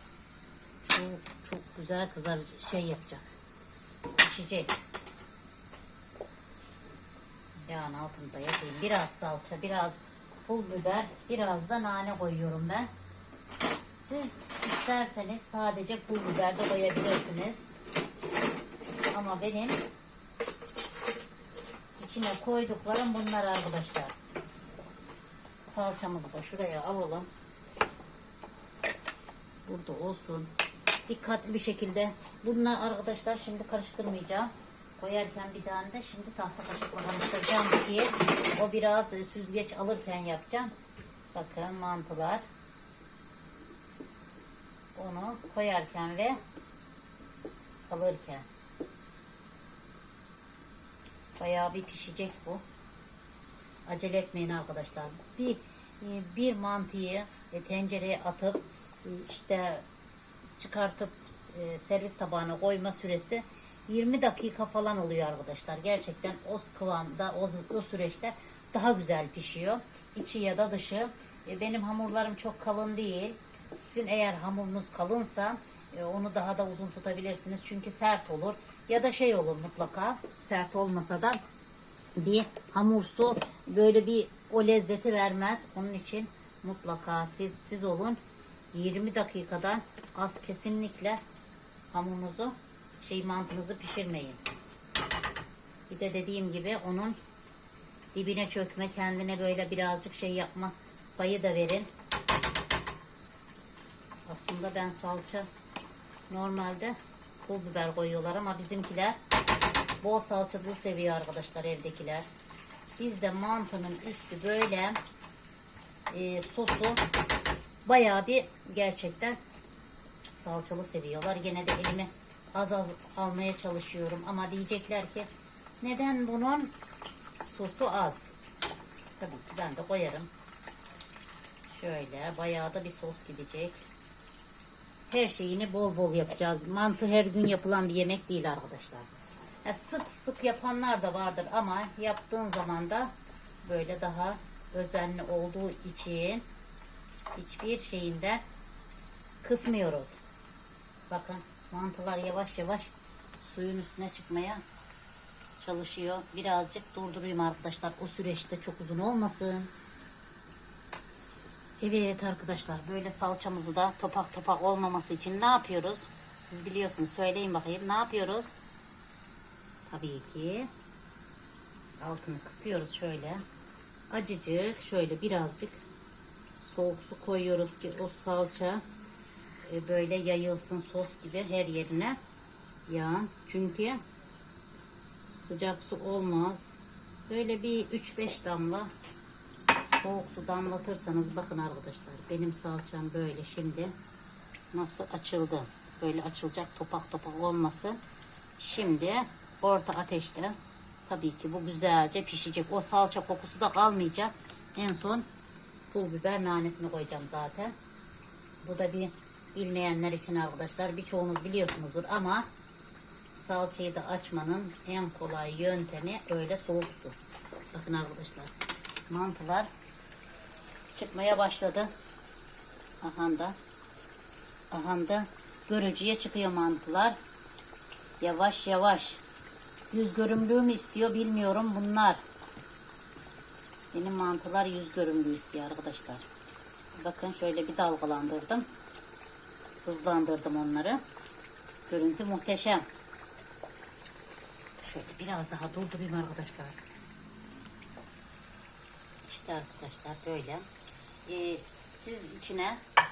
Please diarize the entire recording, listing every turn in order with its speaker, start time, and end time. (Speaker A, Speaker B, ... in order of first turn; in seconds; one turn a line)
Speaker A: 0.8-3.2
Speaker A: 4.2-4.7
Speaker A: 7.7-12.9
Speaker A: 14.0-17.6
Speaker A: 19.1-19.8
Speaker A: 22.0-24.1
Speaker A: 25.6-27.3
Speaker A: 29.6-30.5
Speaker A: 31.1-40.7
Speaker A: 41.3-42.4
Speaker A: 45.0-46.4
Speaker A: 47.9-48.5
Speaker A: 51.4-52.6
Speaker A: 53.9-59.8
Speaker A: 60.6-81.4
Speaker A: 82.2-88.2
Speaker A: 88.7-91.2
Speaker A: 91.9-94.4
Speaker A: 95.9-97.2
Speaker A: 98.1-101.9
Speaker A: 104.3-105.5
Speaker A: 106.3-109.2
Speaker A: 110.0-112.3
Speaker A: 113.0-115.0
Speaker A: 116.1-117.0
Speaker A: 117.8-119.4
Speaker A: 120.3-125.3
Speaker A: 125.8-126.7
Speaker A: 127.4-128.3
Speaker A: 129.2-130.3
Speaker A: 131.7-133.8
Speaker A: 135.1-139.1
Speaker A: 139.6-146.4
Speaker A: 147.3-148.4
Speaker A: 149.4-150.2
Speaker A: 151.1-154.6
Speaker A: 155.6-159.7
Speaker A: 161.8-168.5
Speaker A: 169.8-170.7
Speaker A: 172.0-173.4
Speaker A: 174.1-175.8
Speaker A: 176.5-178.8
Speaker A: 179.6-182.2
Speaker A: 182.9-184.0
Speaker A: 185.2-186.8
Speaker A: 187.3-188.9
Speaker A: 189.8-193.9
Speaker A: 194.7-198.0
Speaker A: 198.6-205.2
Speaker A: 205.9-207.7
Speaker A: 208.6-212.5
Speaker A: 213.3-217.2
Speaker A: 217.7-219.7
Speaker A: 220.9-221.9
Speaker A: 223.0-223.6
Speaker A: 224.7-227.2
Speaker A: 228.2-229.2
Speaker A: 229.9-232.2
Speaker A: 233.9-236.2
Speaker A: 237.0-238.7
Speaker A: 239.8-241.0
Speaker A: 241.9-242.8
Speaker A: 244.8-246.8
Speaker A: 249.2-250.7
Speaker A: 251.2-252.8